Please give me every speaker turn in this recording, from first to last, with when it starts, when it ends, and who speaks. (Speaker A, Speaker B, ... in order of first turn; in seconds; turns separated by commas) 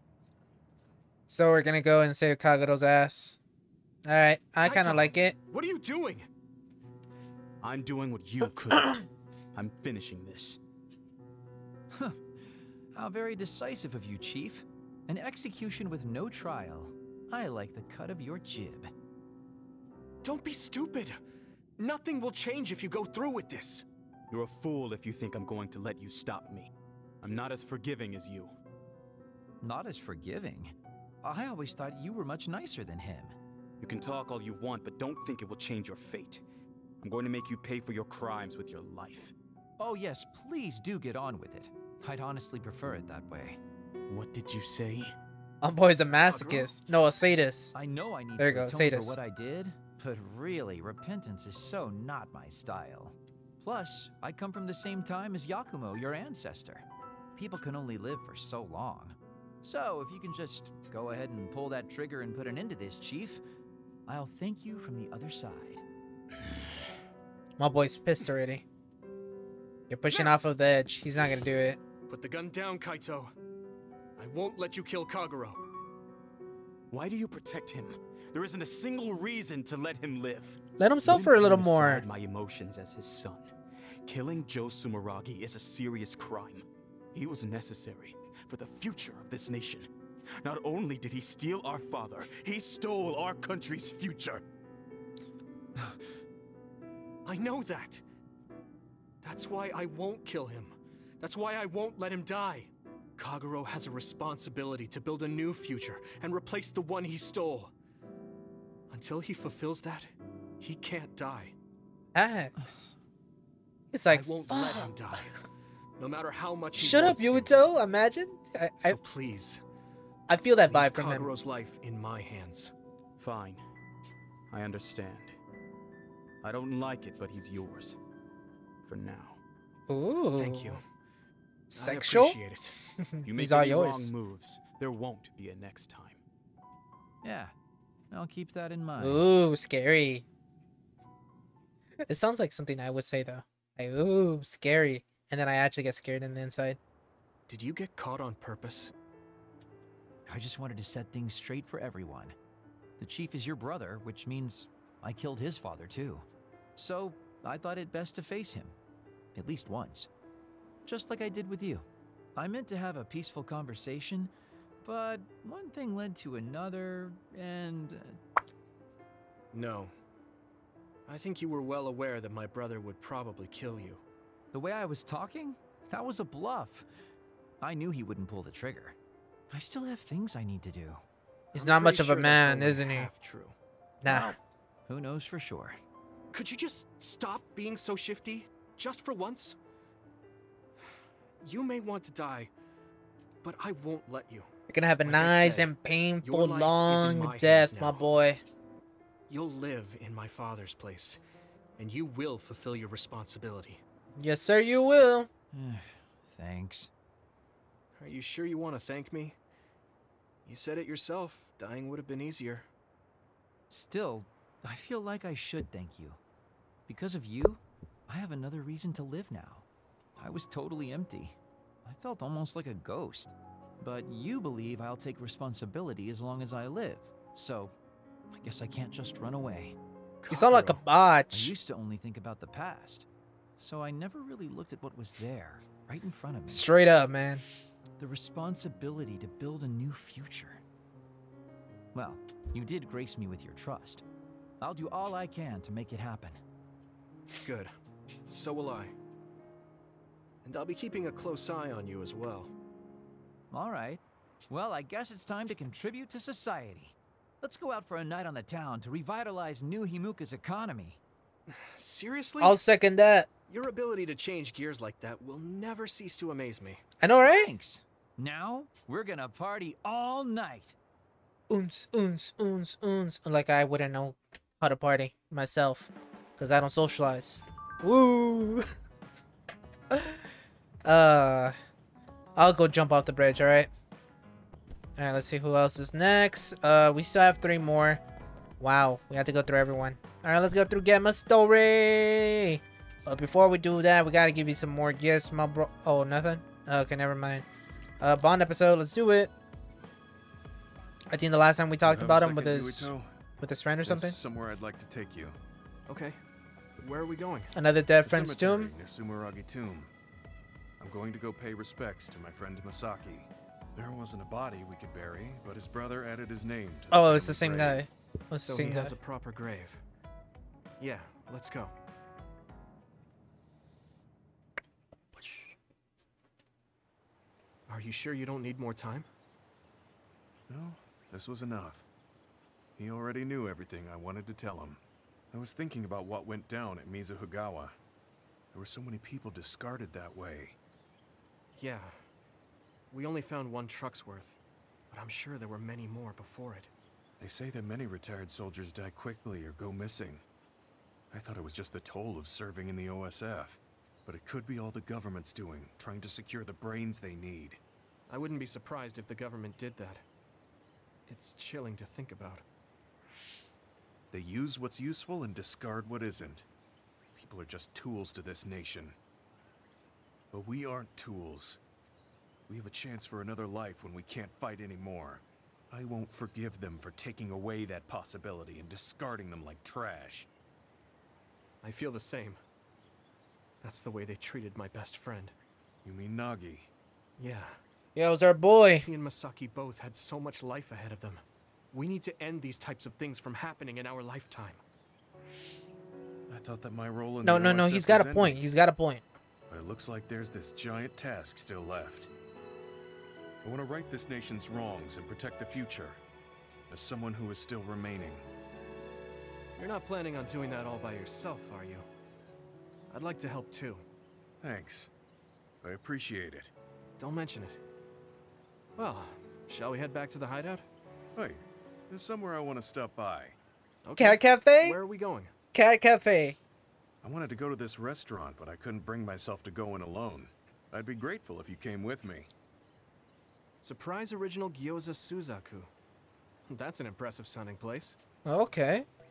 Speaker A: 1.3-3.4, Speaker A: 4.0-5.3, Speaker B: 4.6-6.3, Speaker C: 7.6-9.0, Speaker C: 9.5-10.6, Speaker D: 11.9-18.9, Speaker B: 20.2-21.2, Speaker B: 21.8-23.9, Speaker C: 24.3-28.6, Speaker D: 29.6-33.4, Speaker C: 33.8-36.4, Speaker C: 37.0-39.3, Speaker D: 39.8-43.6, Speaker C: 44.1-45.1, Speaker A: 45.6-47.7, Speaker B: 46.3-46.7, Speaker D: 47.7-56.8, Speaker A: 48.4-49.2, Speaker D: 57.4-63.4, Speaker D: 64.0-65.8, Speaker A: 67.6-68.6, Speaker A: 69.9-71.8, Speaker B: 72.1-73.3, Speaker B: 74.2-75.6, Speaker C: 76.9-83.5, Speaker A: 80.8-82.0, Speaker C: 84.0-89.9, Speaker C: 90.4-94.4, Speaker B: 97.2-98.0, Speaker B: 99.2-107.7, Speaker B: 108.9-111.5, Speaker A: 112.1-112.9, Speaker A: 113.9-114.9, Speaker B: 114.1-115.4, Speaker B: 116.0-117.5, Speaker A: 116.8-119.0, Speaker B: 118.8-119.6, Speaker A: 120.3-121.3, Speaker B: 120.7-122.7, Speaker C: 123.2-123.6, Speaker C: 124.5-125.3, Speaker C: 126.4-128.0, Speaker C: 128.8-129.4, Speaker A: 129.9-130.8, Speaker B: 130.3-130.8, Speaker A: 131.7-132.4, Speaker B: 131.7-132.8, Speaker A: 133.1-134.1, Speaker C: 133.2-136.2, Speaker D: 137.2-137.5, Speaker D: 138.1-139.3, Speaker A: 139.0-140.2, Speaker A: 142.1-146.8, Speaker B: 147.5-148.9, Speaker D: 150.2-152.3, Speaker D: 153.0-158.8, Speaker D: 159.3-160.1, Speaker D: 160.8-168.2, Speaker B: 169.5-169.9, Speaker B: 171.1-174.0, Speaker D: 174.5-176.8, Speaker D: 177.6-179.0, Speaker D: 179.5-181.0, Speaker A: 181.5-183.1, Speaker B: 181.5-183.5, Speaker A: 184.0-184.3, Speaker D: 184.0-185.8, Speaker B: 186.3-189.6, Speaker B: 191.4-192.5, Speaker B: 193.4-194.5, Speaker A: 194.7-198.4, Speaker B: 195.0-198.1, Speaker B: 199.3-201.2, Speaker B: 201.8-203.8, Speaker A: 204.2-205.3, Speaker D: 205.5-206.9, Speaker B: 208.0-209.3, Speaker B: 210.4-212.7, Speaker D: 213.7-216.2, Speaker D: 216.9-219.7, Speaker D: 220.2-227.7, Speaker D: 228.3-229.8, Speaker B: 230.2-230.8, Speaker A: 230.3-231.5, Speaker D: 231.3-233.1, Speaker D: 233.6-236.7, Speaker A: 236.5-237.4, Speaker D: 238.0-240.6, Speaker D: 241.9-244.0, Speaker D: 244.6-246.4, Speaker B: 247.4-247.7, Speaker B: 248.3-248.9, Speaker B: 250.4-252.5, Speaker D: 253.5-261.0, Speaker B: 261.5-262.6, Speaker A: 262.4-263.3, Speaker B: 263.5-266.8, Speaker A: 267.0-267.5, Speaker D: 267.2-270.8, Speaker A: 271.5-278.6, Speaker A: 279.9-280.2, Speaker A: 280.8-281.5, Speaker A: 282.4-283.7, Speaker A: 285.0-288.0, Speaker A: 288.6-297.4, Speaker A: 298.0-299.3, Speaker A: 301.1-304.2, Speaker E: 301.8-303.1, Speaker E: 303.8-305.4, Speaker B: 305.9-306.2, Speaker B: 306.8-307.5, Speaker A: 307.5-308.7, Speaker E: 308.0-309.9, Speaker E: 310.8-317.8, Speaker A: 316.9-318.9, Speaker B: 318.4-319.8, Speaker B: 320.8-321.7, Speaker B: 327.7-329.1, Speaker E: 330.5-331.9, Speaker E: 332.8-337.8, Speaker E: 338.5-340.6, Speaker B: 341.6-342.0, Speaker B: 342.9-344.4, Speaker B: 344.9-346.7, Speaker E: 347.2-350.2, Speaker E: 351.1-357.6, Speaker B: 358.1-360.0, Speaker B: 361.1-362.4, Speaker E: 364.1-366.4, Speaker E: 367.1-368.9, Speaker E: 370.3-371.6, Speaker E: 372.5-380.3, Speaker B: 381.6-382.4, Speaker B: 383.6-385.3, Speaker E: 385.8-386.7, Speaker B: 387.2-387.6, Speaker A: 387.9-388.9, Speaker B: 388.9-394.6, Speaker E: 396.3-398.4, Speaker A: 397.2-399.0, Speaker E: 399.5-402.1, Speaker E: 403.4-406.0, Speaker E: 406.7-408.2, Speaker B: 409.6-411.9, Speaker B: 412.9-413.8, Speaker E: 414.4-414.9, Speaker E: 415.6-416.5, Speaker B: 417.0-417.6, Speaker B: 418.8-420.6, Speaker E: 421.1-423.4, Speaker B: 423.8-425.3, Speaker A: 424.0-424.8, Speaker A: 425.5-426.4, Speaker E: 427.0-432.3, Speaker B: 433.6-435.7, Speaker B: 436.5-437.9, Speaker A: 438.2-438.9